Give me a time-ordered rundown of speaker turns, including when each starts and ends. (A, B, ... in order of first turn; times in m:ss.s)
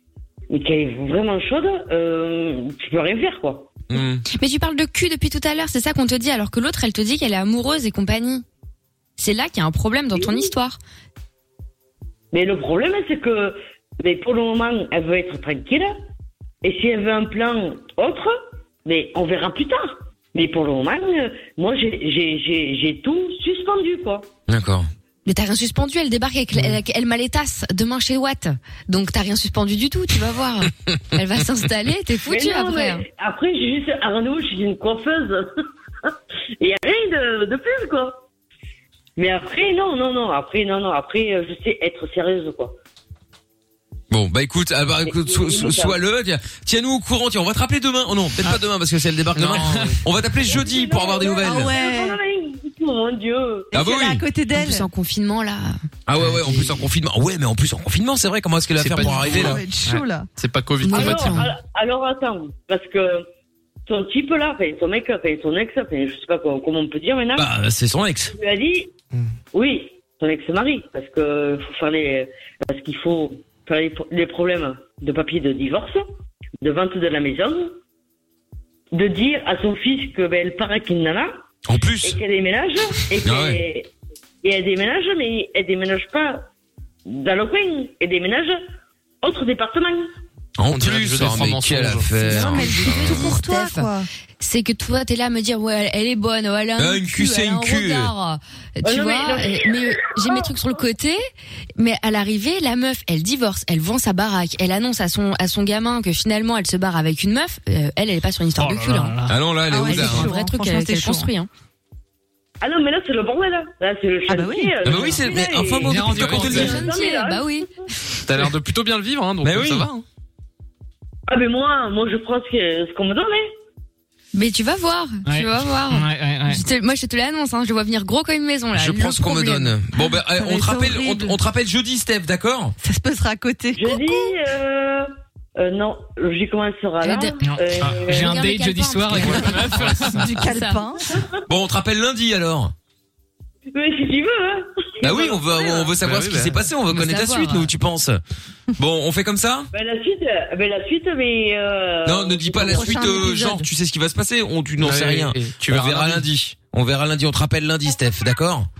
0:00.5-0:03.7 A
0:03.9-0:04.2 B
0:04.3-0:08.4 C
0:09.2-0:10.8 C
0:10.1-0:10.5 A
0:12.3-0:15.9 A
0:16.6-0:24.3 A
0:24.5-0:24.9 B
0:25.2-0:33.0 C
0:32.3-0:35.4 A
0:36.0-0:38.2 A
0:39.2-0:42.7 A
0:44.1-0:51.7 B
0:45.0-0:46.0 A
0:49.3-0:50.0 D
0:50.4-0:53.8 A
0:51.4-0:52.2 E
0:53.7-0:54.2 B
0:53.7-0:54.9 E
0:54.5-0:55.8 C
0:56.1-0:59.6 B
0:58.8-1:01.5 D
0:59.0-1:00.3 E
1:00.9-1:01.5 C
1:00.9-1:03.2 A
1:03.9-1:07.5 A
1:07.3-1:08.3 B
1:08.3-1:08.9 A
1:09.5-1:16.1 A
1:16.6-1:17.7 A
1:18.9-1:21.4 A
1:21.6-1:22.2 B
1:22.0-1:23.9 A
1:23.2-1:23.6 B
1:24.4-1:26.4 A
1:27.0-1:28.6 A
1:29.2-1:30.1 A
1:30.6-1:33.4 B
1:30.7-1:32.2 D
1:32.2-1:34.1 E
1:32.3-1:33.9 C
1:34.4-1:41.2 C
1:36.8-1:38.1 B
1:38.8-1:40.5 A
1:41.8-1:49.2 C
1:48.6-1:49.4 F
1:49.3-1:50.3 B
1:49.7-1:51.3 E
1:49.8-1:51.5 C
1:52.6-1:57.6 A
1:54.3-1:54.7 E
1:54.8-1:56.9 B
1:55.8-1:56.8 F
1:56.2-1:56.5 D
1:56.3-1:57.7 C
1:58.3-2:00.0 D
1:59.4-1:59.9 B
2:01.3-2:03.5 A
2:04.3-2:09.8 C
2:05.2-2:06.6 F
2:08.7-2:12.8 B
2:10.3-2:11.4 E
2:12.8-2:14.3 E
2:13.7-2:18.3 A
2:17.0-2:17.4 C
2:17.4-2:20.3 F
2:18.1-2:20.8 C
2:19.3-2:20.1 D
2:20.2-2:21.1 E
2:21.1-2:21.4 A
2:21.5-2:22.7 B
2:23.7-2:25.9 A
2:25.0-2:28.2 B
2:26.0-2:26.6 D
2:26.9-2:27.7 C
2:28.8-2:29.7 B
2:29.7-2:33.3 A
2:32.0-2:38.7 B
2:32.6-2:33.6 E
2:34.8-2:36.3 D